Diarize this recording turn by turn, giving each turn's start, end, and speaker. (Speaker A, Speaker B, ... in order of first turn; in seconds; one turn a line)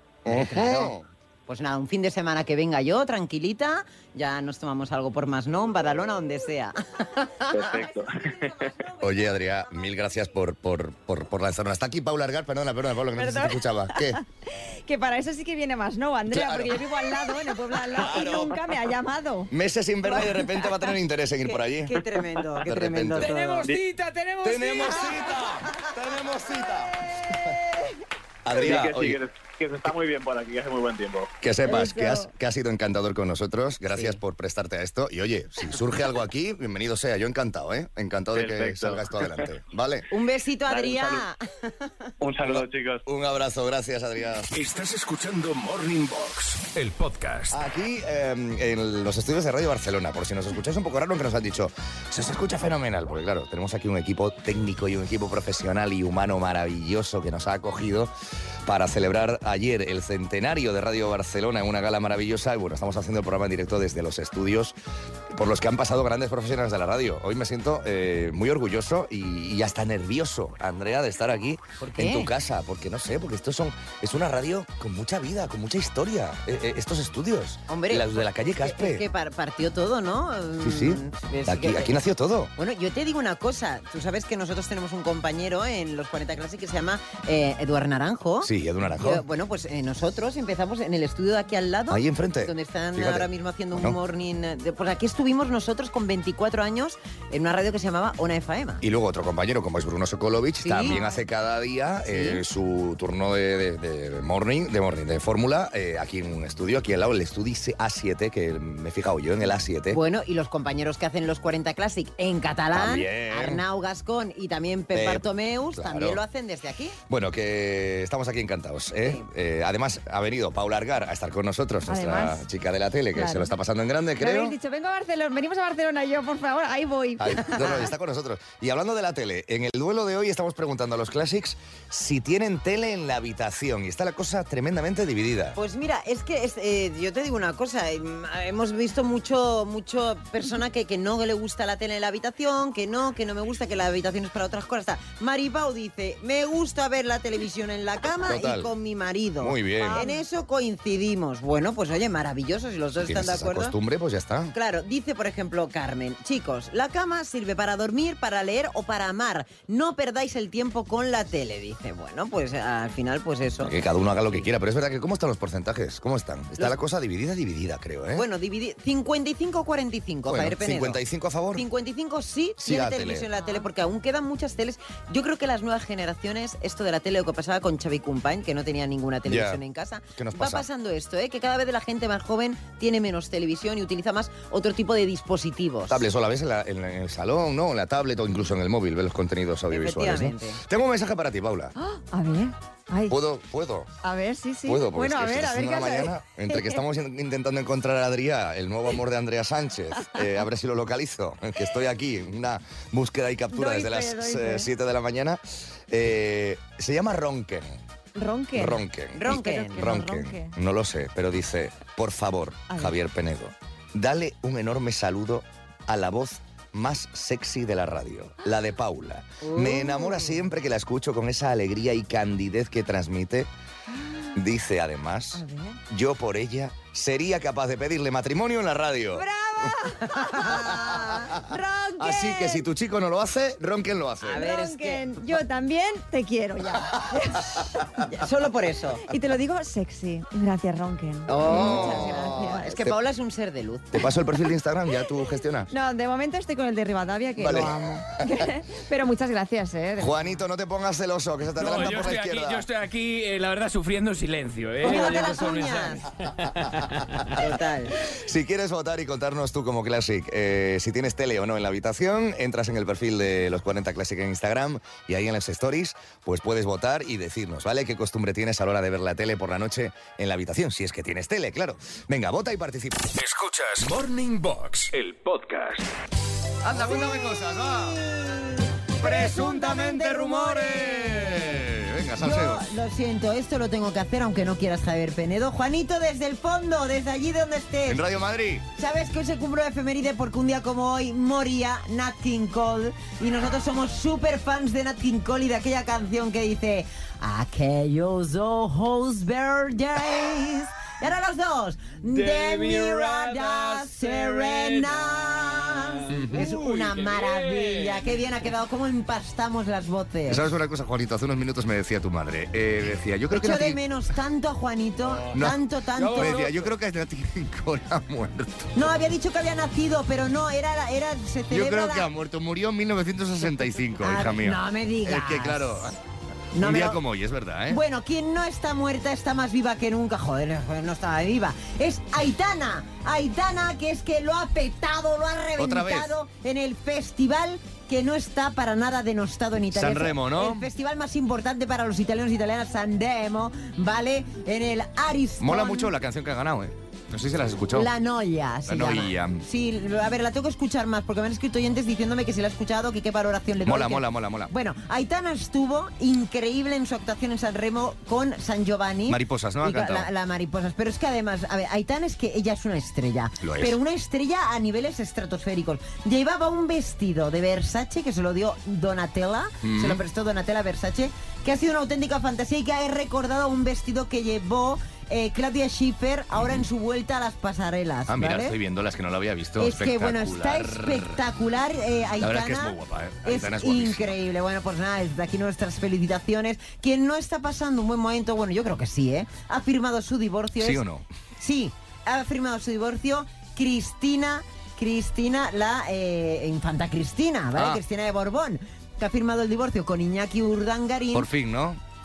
Speaker A: 0.2-1.0
Speaker B: 0.3-9.1
Speaker C: 7.5-8.7
Speaker A: 9.0-14.2
Speaker D: 13.2-19.5
Speaker A: 16.3-18.6
Speaker A: 19.5-22.0
Speaker B: 20.1-20.6
Speaker B: 21.8-23.7
Speaker A: 22.6-23.3
Speaker E: 23.2-25.3
Speaker A: 24.4-27.5
Speaker A: 28.4-29.2
Speaker C: 28.5-31.3
Speaker A: 31.4-40.1
Speaker D: 31.7-32.3
Speaker C: 38.3-39.5
Speaker B: 40.1-41.4
Speaker C: 40.7-41.3
Speaker C: 42.2-43.0
Speaker A: 42.4-44.5
Speaker F: 44.5-47.6
Speaker A: 47.5-58.1
Speaker A: 58.6-64.8
Speaker A: 65.3-79.0
Speaker B: 72.0-72.3
Speaker B: 77.7-81.9
Speaker A: 80.6-82.5
Speaker B: 82.6-98.8
Speaker A: 88.4-89.2
Speaker A: 91.9-94.0
Speaker A: 98.8-110.0
Speaker B: 100.6-101.0
Speaker B: 102.0-102.4
Speaker B: 109.9-117.0
Speaker A: 112.7-113.6
Speaker A: 114.9-116.2
Speaker A: 117.1-124.6
Speaker D: 121.9-122.4
Speaker D: 123.2-123.5
Speaker D: 124.2-127.8
Speaker A: 127.2-135.6
Speaker B: 135.6-153.8
Speaker A: 148.2-148.7
Speaker A: 149.4-150.0
Speaker D: 149.9-150.2
Speaker A: 153.0-154.6
Speaker B: 154.6-163.7
Speaker A: 163.6-168.2
Speaker B: 168.2-171.0
Speaker A: 170.3-171.7
Speaker B: 171.6-186.1
Speaker A: 172.6-173.3
Speaker D: 173.4-173.6
Speaker A: 179.3-179.6
Speaker A: 180.2-180.7
Speaker A: 185.9-191.7
Speaker B: 189.7-190.6
Speaker D: 191.8-193.2
Speaker A: 193.1-193.9
Speaker D: 194.0-196.8
Speaker A: 194.7-207.8
Speaker D: 203.5-204.7
Speaker D: 208.2-210.5
Speaker A: 208.6-223.5
Speaker B: 209.2-209.8
Speaker D: 212.7-212.9
Speaker B: 219.4-220.4
Speaker D: 224.0-224.3
Speaker A: 224.3-229.7
Speaker D: 225.3-225.8
Speaker D: 229.1-232.6
Speaker B: 230.3-231.3
Speaker A: 230.5-231.3
Speaker A: 232.0-234.5
Speaker B: 234.2-235.1
Speaker D: 234.3-238.0
Speaker B: 238.1-239.0
Speaker D: 239.1-242.7
Speaker B: 241.3-244.0
Speaker A: 241.4-242.9
Speaker A: 243.9-245.7
Speaker D: 245.7-250.4
Speaker A: 247.4-248.0
Speaker A: 250.0-252.7
Speaker E: 251.6-257.4
Speaker B: 254.8-256.1
Speaker B: 257.4-258.0
Speaker A: 258.1-273.1
Speaker F: 273.1-275.9
Speaker A: 276.6-278.0
Speaker B: 276.7-281.6
Speaker A: 279.0-282.7
Speaker B: 282.2-288.1
Speaker A: 287.9-288.6
Speaker B: 288.8-310.5
Speaker E: 302.1-308.3
Speaker A: 306.1-306.6
Speaker A: 310.3-313.8
Speaker B: 313.3-316.5
Speaker E: 315.1-315.4
Speaker A: 315.3-318.7
Speaker E: 316.0-316.7
Speaker B: 318.8-322.1
Speaker A: 321.5-326.0
Speaker B: 324.0-325.9
Speaker B: 326.6-327.0
Speaker A: 326.6-327.8
Speaker B: 327.7-345.9
Speaker A: 335.6-336.2
Speaker A: 339.7-340.7
Speaker A: 345.4-347.9
Speaker B: 347.7-378.6
Speaker A: 348.7-349.4
Speaker A: 353.6-354.5
Speaker A: 359.1-360.1
Speaker A: 363.4-363.8
Speaker A: 369.6-370.0
Speaker A: 376.3-376.7
Speaker A: 378.1-381.2
Speaker B: 379.6-390.8
Speaker A: 382.2-384.1
Speaker A: 390.6-391.1
Speaker B: 391.4-401.3
Speaker A: 397.6-397.8
Speaker A: 401.1-401.8